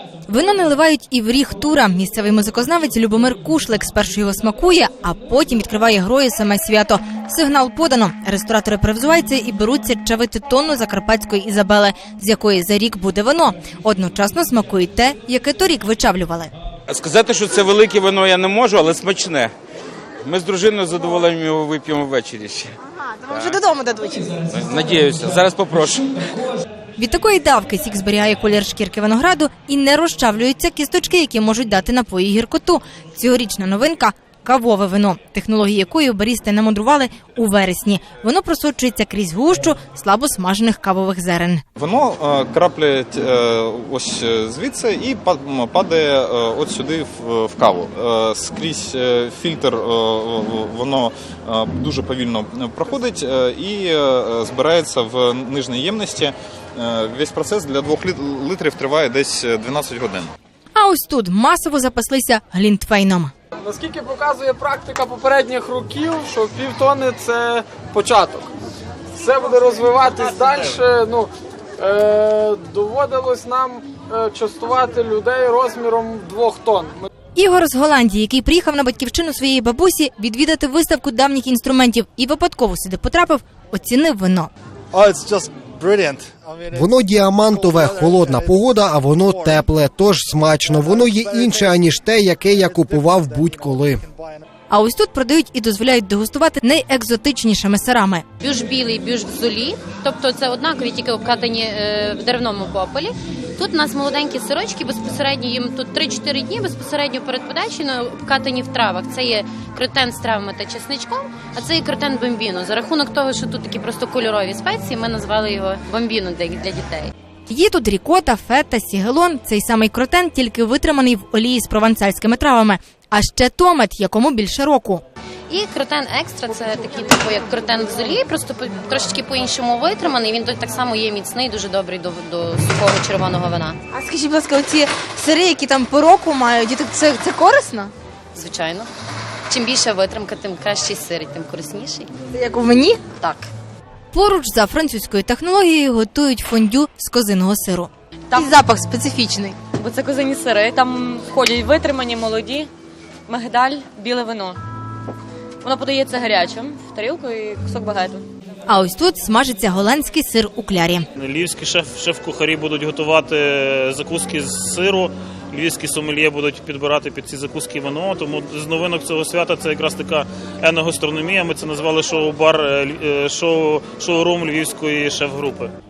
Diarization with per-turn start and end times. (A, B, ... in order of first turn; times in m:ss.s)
0:00.3-0:16.5 A
0:16.9-0:19.5 B
0:20.2-0:22.8 B
0:23.3-0:23.6 B
0:23.4-0:24.2 A
0:24.5-0:26.4 B
0:27.0-0:41.6 A
0:41.8-1:00.3 C
1:00.7-1:03.3 A
1:03.5-1:08.5 D
1:09.1-1:17.0 D
1:17.4-1:24.5 A
1:24.9-1:27.0 E
1:26.7-1:34.0 F
1:27.5-1:29.6 E
1:30.6-1:31.8 E
1:32.5-1:34.4 E
1:34.7-1:38.2 A
1:38.4-1:57.1 G
1:57.5-2:05.0 A
2:05.5-2:13.8 G
2:13.9-2:17.9 A
2:18.3-2:18.9 G
2:19.5-2:22.1 G
2:22.3-2:23.0 A
2:23.1-2:23.5 G
2:24.1-2:29.6 A
2:29.7-2:32.7 H
2:33.3-2:34.6 H
2:35.6-2:38.2 H
2:38.7-2:41.0 A
2:41.2-2:55.7 I